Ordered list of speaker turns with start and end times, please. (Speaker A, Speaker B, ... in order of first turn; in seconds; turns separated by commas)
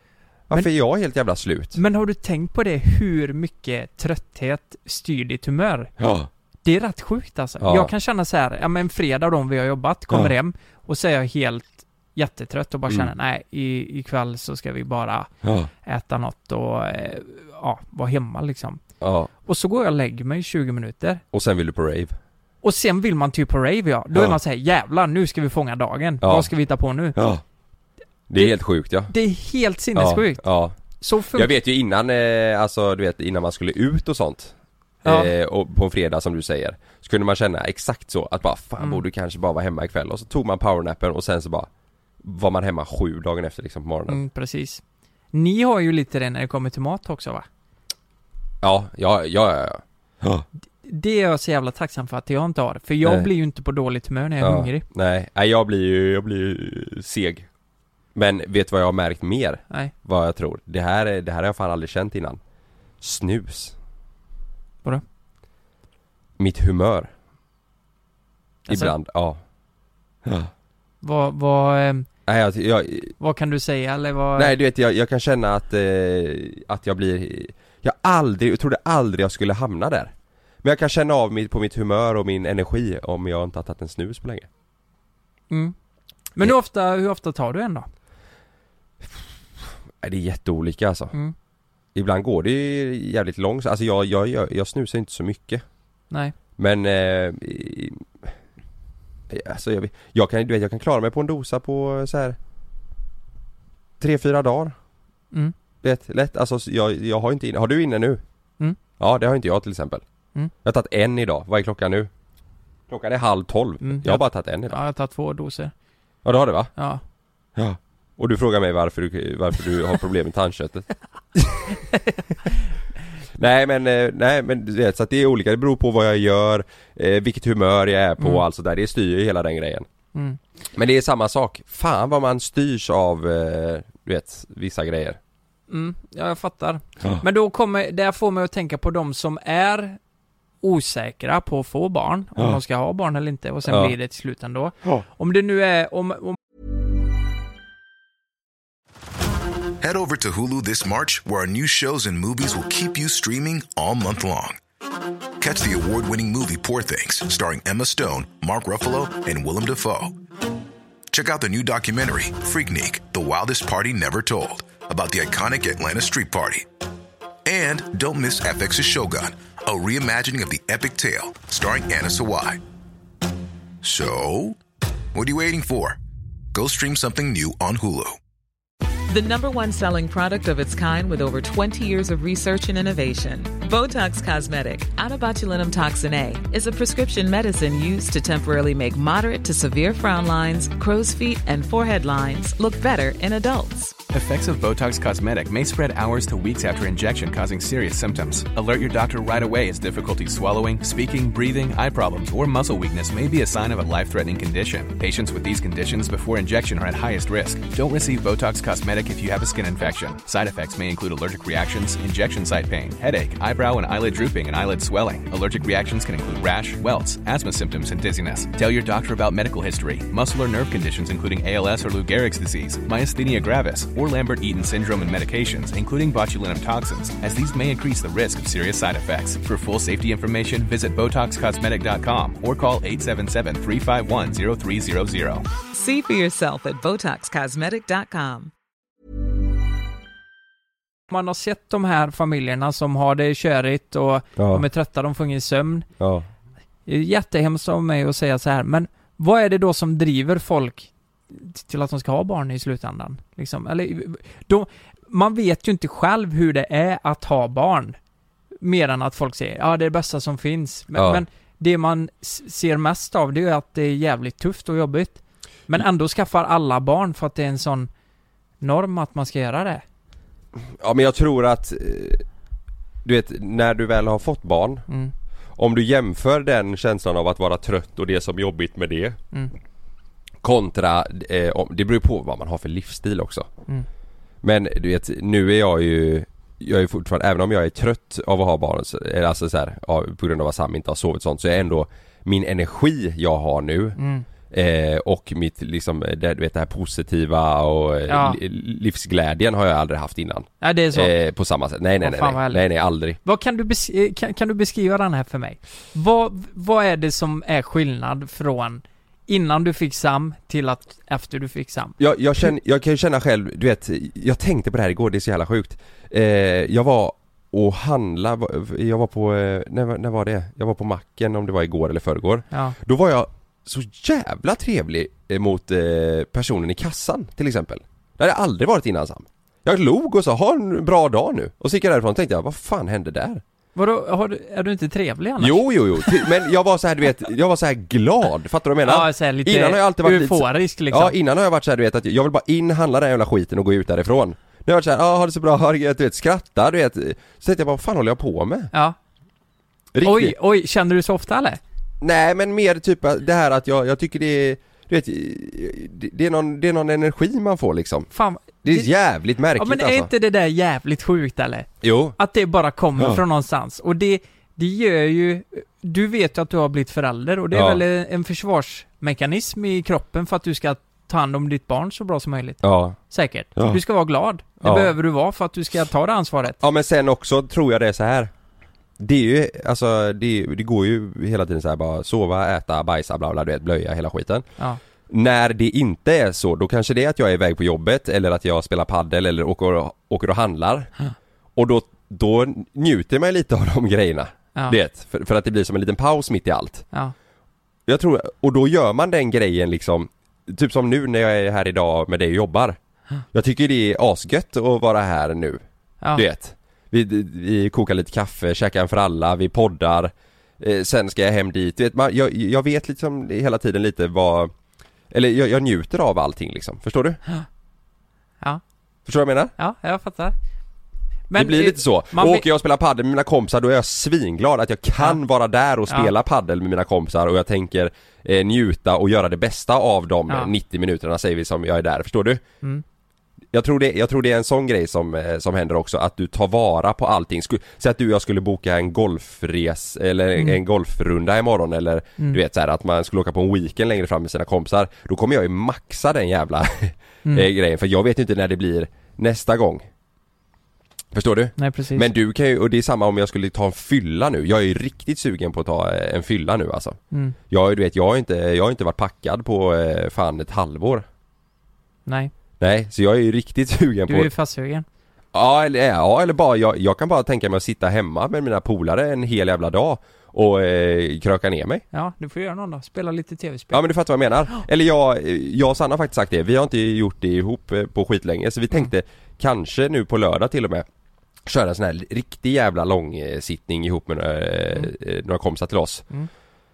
Speaker A: 0.5-1.8, Speaker B: 1.7-5.9, Speaker A: 6.0-6.3, Speaker B: 6.6-15.3, Speaker A: 7.6-7.9, Speaker A: 15.4-15.7, Speaker B: 15.8-18.8, Speaker A: 19.0-19.3, Speaker B: 19.4-21.2, Speaker A: 21.3-22.1, Speaker B: 22.6-27.2, Speaker A: 26.2-26.5, Speaker A: 27.1-27.4, Speaker A: 28.3-29.1, Speaker B: 29.1-31.5, Speaker A: 29.9-30.8, Speaker A: 31.3-41.7, Speaker B: 35.0-35.3, Speaker A: 42.2-44.2, Speaker B: 44.1-44.8, Speaker B: 45.3-47.5, Speaker A: 48.6-50.4, Speaker B: 50.8-54.8, Speaker A: 53.0-53.3, Speaker A: 54.4-57.5, Speaker A: 58.1-62.4, Speaker A: 63.0-63.7, Speaker A: 66.4-67.1, Speaker B: 68.7-68.9, Speaker A: 68.7-69.4, Speaker A: 70.2-70.5, Speaker B: 71.0-72.1, Speaker A: 72.3-73.1, Speaker B: 73.2-74.5, Speaker A: 74.4-80.1, Speaker A: 80.6-84.5, Speaker B: 85.5-85.7, Speaker B: 86.3-87.9, Speaker A: 90.0-91.1, Speaker A: 91.9-95.6, Speaker B: 96.1-96.3, Speaker A: 96.6-98.3, Speaker A: 99.3-102.4, Speaker A: 104.0-104.7, Speaker A: 105.8-108.2, Speaker A: 109.0-110.0, Speaker A: 110.6-112.1, Speaker A: 112.9-114.8, Speaker B: 113.8-115.7, Speaker A: 116.2-116.7, Speaker B: 116.8-117.0, Speaker A: 117.5-121.7, Speaker A: 123.4-129.9, Speaker B: 128.2-128.4, Speaker B: 130.1-130.4, Speaker A: 130.8-135.2, Speaker B: 135.7-140.0, Speaker B: 140.6-146.4, Speaker A: 143.7-143.9, Speaker C: 149.8-154.6, Speaker C: 155.4-160.2, Speaker C: 161.1-166.7, Speaker C: 167.4-172.6, Speaker C: 173.8-174.6, Speaker C: 175.1-176.0, Speaker C: 176.5-178.2, Speaker D: 179.1-194.0, Speaker E: 194.1-235.5, Speaker D: 235.7-238.5, Speaker B: 241.1-245.9, Speaker A: 244.4-244.6, Speaker A: 246.0-246.2, Speaker B: 246.8-257.9, Speaker B: 258.6-267.9, Speaker A: 260.9-261.2, Speaker B: 268.6-269.8, Speaker A: 270.6-272.2, Speaker A: 273.0-274.8, Speaker B: 274.9-275.1, Speaker A: 275.6-279.2, Speaker A: 280.4-283.5, Speaker A: 284.4-294.0, Speaker B: 294.0-294.3, Speaker A: 294.5-303.2, Speaker B: 298.1-298.4, Speaker B: 300.6-301.1, Speaker B: 302.0-302.6, Speaker B: 303.2-312.5, Speaker A: 312.0-333.4, Speaker B: 322.5-322.8, Speaker B: 333.7-336.2, Speaker A: 335.4-348.7, Speaker B: 338.8-341.1, Speaker B: 348.7-349.0, Speaker A: 349.9-350.3, Speaker B: 350.0-351.6, Speaker A: 352.0-358.1, Speaker B: 358.1-358.9, Speaker A: 358.6-360.1, Speaker B: 359.6-376.6, Speaker A: 361.8-362.2, Speaker A: 367.5-367.8, Speaker A: 372.6-373.0, Speaker A: 374.6-374.9, Speaker A: 376.5-378.3, Speaker A: 379.0-384.4, Speaker A: 385.1-390.9, Speaker A: 391.6-396.8, Speaker A: 397.9-402.8, Speaker A: 403.3-405.6, Speaker B: 406.0-406.2, Speaker A: 406.1-414.5, Speaker A: 415.1-417.2, Speaker A: 419.1-419.5, Speaker B: 419.6-420.3, Speaker B: 421.3-422.4, Speaker A: 421.3-432.4, Speaker A: 433.5-449.9, Speaker A: 451.1-457.0, Speaker B: 451.6-452.1, Speaker B: 457.1-457.4, Speaker A: 457.5-461.0, Speaker B: 462.1-462.3, Speaker A: 462.6-464.3, Speaker B: 464.1-464.9, Speaker A: 465.3-471.8, Speaker B: 471.9-473.8, Speaker A: 473.7-480.9, Speaker A: 481.4-486.0